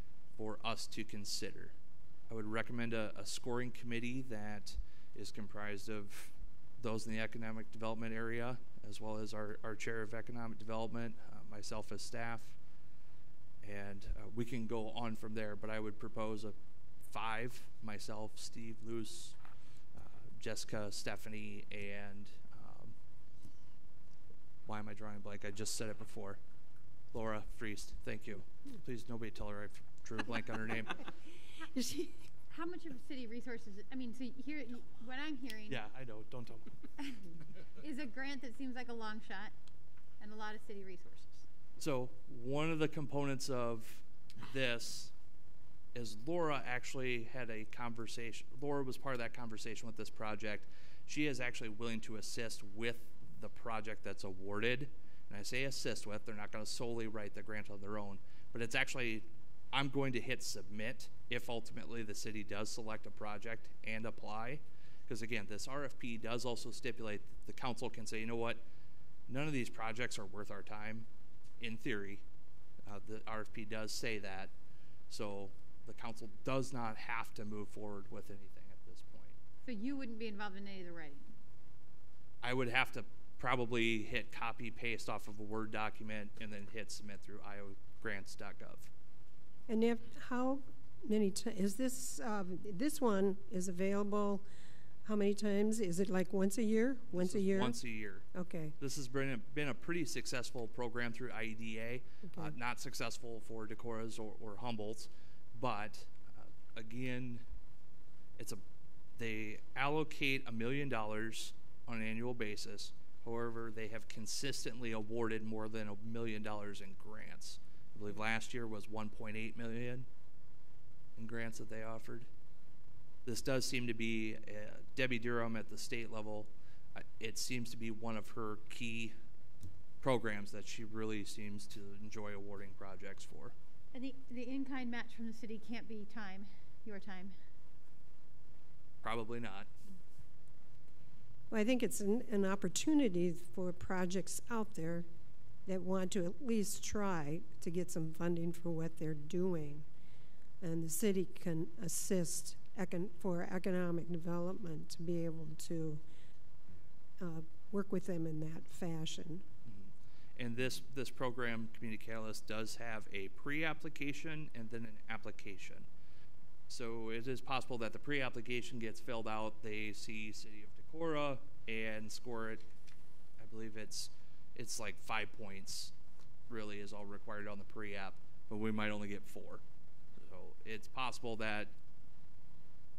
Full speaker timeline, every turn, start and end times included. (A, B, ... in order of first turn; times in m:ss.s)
0:00.4-0:01.7 A
0:02.3-0:12.6 A
0:13.6-0:19.4 A
0:20.0-0:23.0 A
0:24.7-0:26.4 A
0:27.1-0:31.0 A
0:31.6-0:32.1 B
0:32.5-0:35.8 C
0:35.7-0:36.8 A
0:37.0-0:39.5 C
0:40.2-0:41.4 C
0:41.8-0:45.1 A
0:45.9-1:08.6 A
1:09.3-1:11.1 A
1:11.6-1:12.2 A
1:12.8-1:14.5 A
1:15.1-1:19.4 A
1:19.6-1:21.2 C
1:22.4-1:28.9 A
1:29.7-1:34.5 B
1:35.0-1:37.8 B
1:37.1-1:38.3 A
1:38.3-1:38.8 B
1:38.8-1:47.4 A
1:42.3-1:42.6 B
1:48.4-1:48.6 A
1:49.2-2:00.1 A
2:01.2-2:02.3 A
2:03.2-2:09.1 A
2:10.0-2:13.5 A
2:13.9-2:17.4 C
2:19.0-2:19.7 A
2:21.5-2:25.1 B
2:25.7-2:29.9 B
2:30.6-2:36.0 B
2:37.2-2:39.4 B
2:39.6-2:45.9 A
2:46.7-2:52.6 A
2:53.4-2:55.9 A
2:56.5-2:59.6 A
3:00.2-3:01.7 A